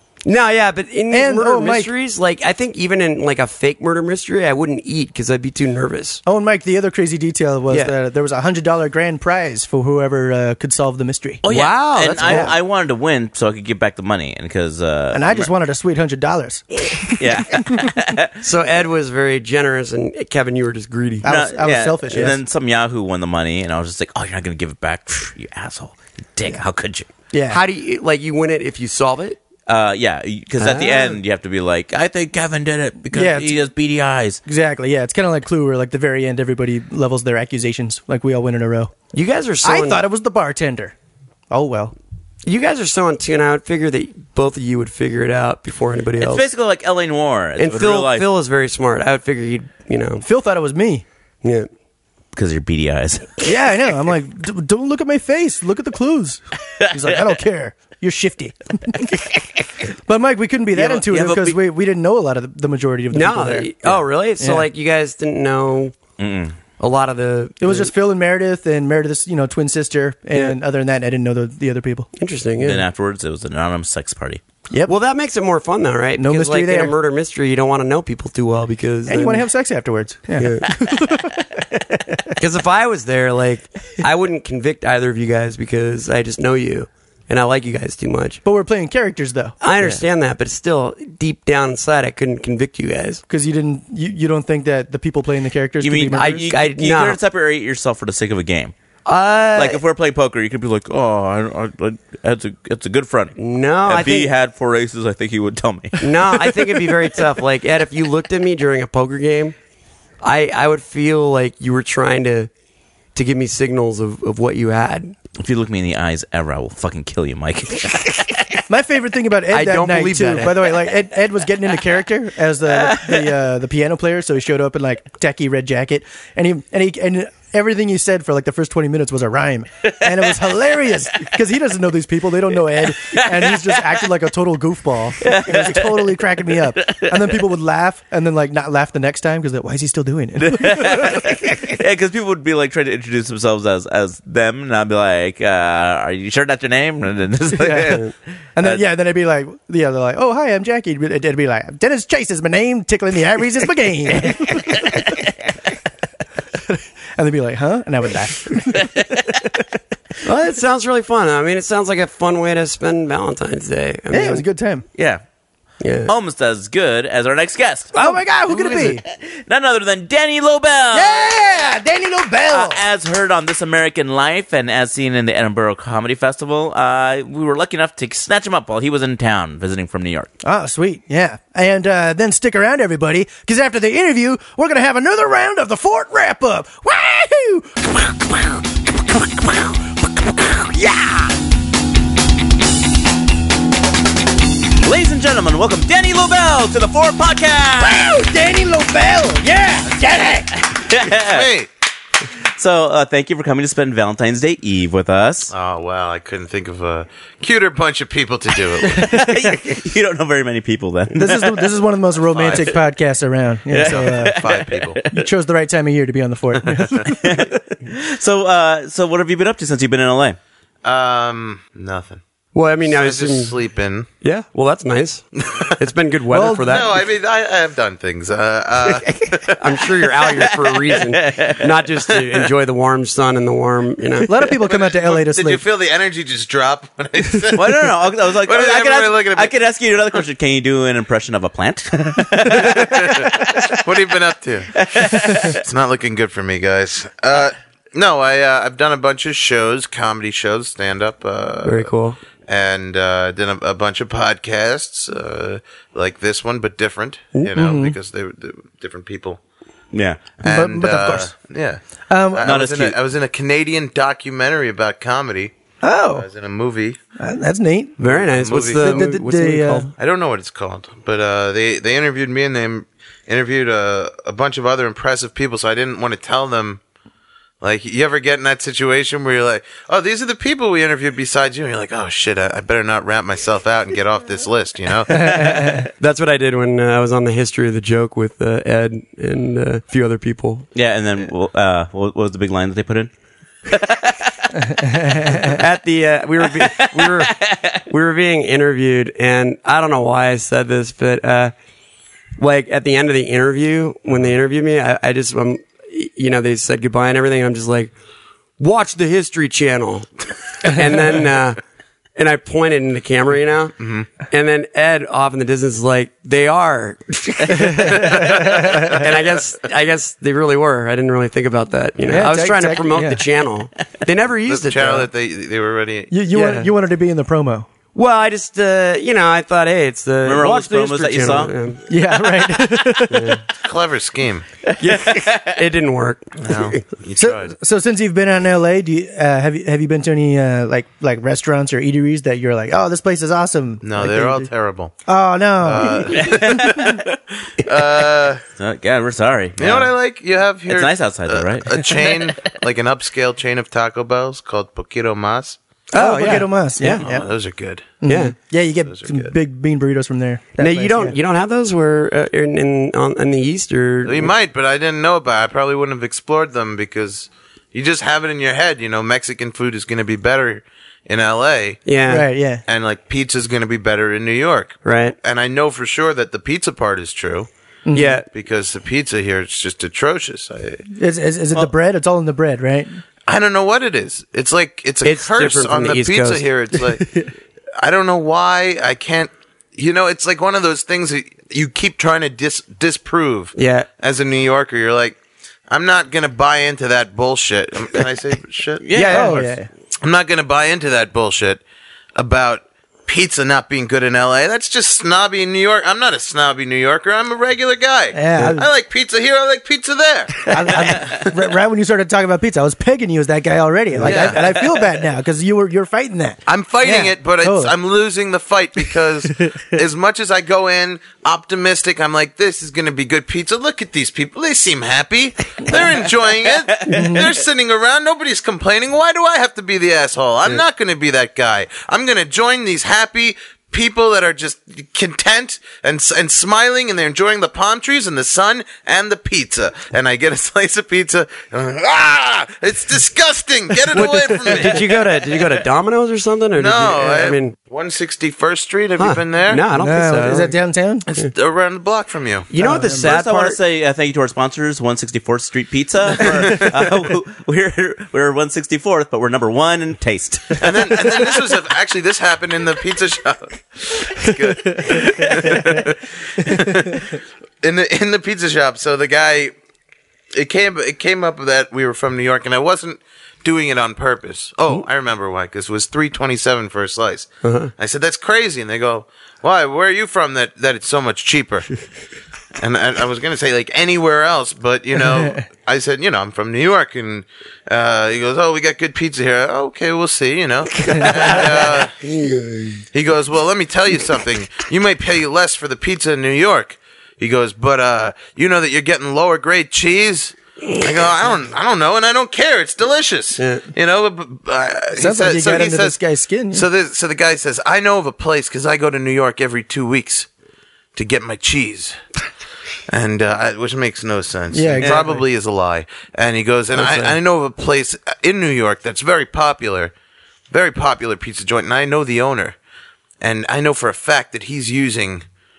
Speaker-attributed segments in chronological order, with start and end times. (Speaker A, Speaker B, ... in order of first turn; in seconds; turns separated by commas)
Speaker A: 0.2-6.2, Speaker B: 1.1-1.9, Speaker B: 6.3-11.4, Speaker C: 11.4-15.5, Speaker A: 11.5-12.5, Speaker B: 12.2-12.5, Speaker B: 15.1-17.9, Speaker C: 17.2-18.4, Speaker A: 18.4-21.3, Speaker B: 21.2-22.4, Speaker C: 21.2-27.1, Speaker B: 27.3-27.6, Speaker A: 27.5-29.4, Speaker C: 29.7-34.4, Speaker A: 30.6-31.2, Speaker B: 33.1-33.6, Speaker B: 34.5-38.9, Speaker A: 39.1-40.0, Speaker B: 39.6-40.9, Speaker B: 41.5-41.9, Speaker A: 42.4-46.4, Speaker C: 46.2-48.3, Speaker A: 47.6-50.2, Speaker B: 50.2-51.0, Speaker A: 51.4-51.7, Speaker C: 52.3-53.4, Speaker B: 53.4-59.5, Speaker B: 60.1-63.7, Speaker C: 60.8-61.6, Speaker A: 63.1-66.0, Speaker B: 64.4-64.7, Speaker C: 66.2-66.6, Speaker A: 66.8-67.9, Speaker B: 67.6-72.1, Speaker A: 72.2-72.8, Speaker C: 72.6-74.4, Speaker A: 74.9-79.5, Speaker B: 76.2-76.9, Speaker B: 79.1-82.4, Speaker A: 80.4-80.7, Speaker A: 82.4-88.4, Speaker B: 88.5-89.6, Speaker A: 89.6-93.2, Speaker B: 93.3-96.5, Speaker C: 95.8-98.7, Speaker A: 96.1-97.2, Speaker A: 99.0-99.8, Speaker C: 99.5-103.3, Speaker A: 103.4-104.3, Speaker C: 103.9-106.4, Speaker A: 106.0-109.5, Speaker A: 110.2-112.5, Speaker A: 113.2-115.2, Speaker C: 115.4-118.6, Speaker B: 118.7-141.4, Speaker A: 119.5-120.7, Speaker C: 135.2-137.3, Speaker C: 140.4-148.1, Speaker B: 147.5-148.0, Speaker B: 148.6-155.2, Speaker B: 156.6-159.6, Speaker C: 158.8-159.3, Speaker A: 160.2-164.4, Speaker B: 164.1-164.8, Speaker C: 164.9-165.2, Speaker A: 165.8-166.1, Speaker C: 166.1-167.9, Speaker B: 167.9-169.0, Speaker C: 168.5-171.3, Speaker B: 170.9-172.8, Speaker C: 172.5-180.3, Speaker B: 180.4-191.3, Speaker C: 194.8-198.1, Speaker B: 197.8-200.6, Speaker C: 200.6-201.5, Speaker D: 201.1-201.7, Speaker C: 202.4-205.5, Speaker D: 205.5-209.1, Speaker C: 208.9-211.7, Speaker B: 208.9-209.6, Speaker B: 211.2-214.4, Speaker C: 212.4-212.8, Speaker C: 213.7-215.3, Speaker D: 213.8-215.0, Speaker B: 215.1-217.4, Speaker D: 216.7-217.1, Speaker C: 217.0-220.4, Speaker D: 220.8-222.2, Speaker A: 222.5-223.6, Speaker D: 222.9-224.1, Speaker A: 224.2-227.0, Speaker B: 226.3-226.8, Speaker D: 226.6-229.6, Speaker A: 229.6-234.4, Speaker C: 230.9-232.2, Speaker B: 234.3-235.6, Speaker D: 234.6-239.5, Speaker C: 237.5-243.9, Speaker D: 242.5-251.9, Speaker C: 244.7-245.6, Speaker A: 251.7-252.2, Speaker D: 252.5-259.4, Speaker B: 257.6-258.0, Speaker C: 259.9-260.2, Speaker D: 260.4-265.6, Speaker B: 260.4-261.3, Speaker B: 262.1-262.6, Speaker C: 262.4-263.0, Speaker B: 265.8-266.3, Speaker D: 266.1-267.0, Speaker B: 267.2-268.0, Speaker A: 268.0-269.9, Speaker D: 268.1-269.1, Speaker B: 268.8-269.9, Speaker D: 270.0-276.8, Speaker D: 277.6-285.8, Speaker B: 285.2-285.8, Speaker A: 286.0-290.7, Speaker C: 290.7-293.1, Speaker C: 293.7-294.7, Speaker B: 294.8-295.5, Speaker A: 295.4-301.5, Speaker C: 296.6-297.8, Speaker A: 302.4-307.9, Speaker A: 308.6-311.6, Speaker A: 312.2-325.1, Speaker D: 313.8-314.1, Speaker B: 317.5-318.9, Speaker B: 322.1-323.2, Speaker D: 324.5-326.1, Speaker B: 326.1-327.7, Speaker A: 326.3-326.7, Speaker A: 327.9-331.9, Speaker C: 330.2-331.6, Speaker B: 331.9-333.4, Speaker A: 333.1-333.4, Speaker D: 333.6-334.5, Speaker C: 334.7-335.6, Speaker A: 334.8-336.8, Speaker D: 336.4-337.5, Speaker B: 337.2-344.5, Speaker D: 343.8-344.9, Speaker B: 345.1-346.9, Speaker D: 345.6-348.4, Speaker C: 346.1-347.1, Speaker C: 348.6-349.9, Speaker D: 349.6-355.6, Speaker C: 350.7-352.0, Speaker B: 355.9-357.3, Speaker A: 355.9-357.0, Speaker D: 357.0-358.0, Speaker B: 358.0-361.2, Speaker A: 358.1-358.4, Speaker D: 358.9-359.3, Speaker A: 360.6-364.3, Speaker D: 364.1-371.8, Speaker A: 371.9-372.3, Speaker B: 372.1-372.6, Speaker D: 372.7-377.5, Speaker A: 374.9-375.2, Speaker B: 377.9-378.2, Speaker A: 377.9-378.3, Speaker D: 378.3-380.9, Speaker B: 380.9-383.0, Speaker D: 383.3-387.2, Speaker A: 385.0-386.5, Speaker D: 387.8-398.9, Speaker A: 393.6-393.9, Speaker C: 398.8-399.5, Speaker A: 398.9-399.5, Speaker B: 399.1-399.7, Speaker D: 400.0-401.6, Speaker D: 402.2-411.3, Speaker B: 408.1-408.7, Speaker B: 410.5-417.7, Speaker A: 414.0-414.3, Speaker D: 414.1-414.5, Speaker D: 416.5-445.0, Speaker B: 426.9-427.3, Speaker A: 443.9-447.5, Speaker D: 446.6-449.6, Speaker A: 449.0-450.5, Speaker B: 449.7-451.1, Speaker D: 451.1-452.5, Speaker A: 452.5-453.6, Speaker B: 452.6-453.1, Speaker C: 453.0-461.2, Speaker D: 460.6-469.5, Speaker B: 464.9-465.8, Speaker D: 470.3-481.7, Speaker A: 477.4-477.7, Speaker D: 482.6-491.9, Speaker A: 491.1-491.5, Speaker D: 492.9-506.0, Speaker A: 503.4-503.6, Speaker B: 504.9-506.7, Speaker D: 506.5-510.3, Speaker D: 510.9-512.0, Speaker D: 512.9-519.9, Speaker B: 514.5-515.2, Speaker A: 516.8-517.1, Speaker D: 520.5-522.6, Speaker D: 523.2-525.2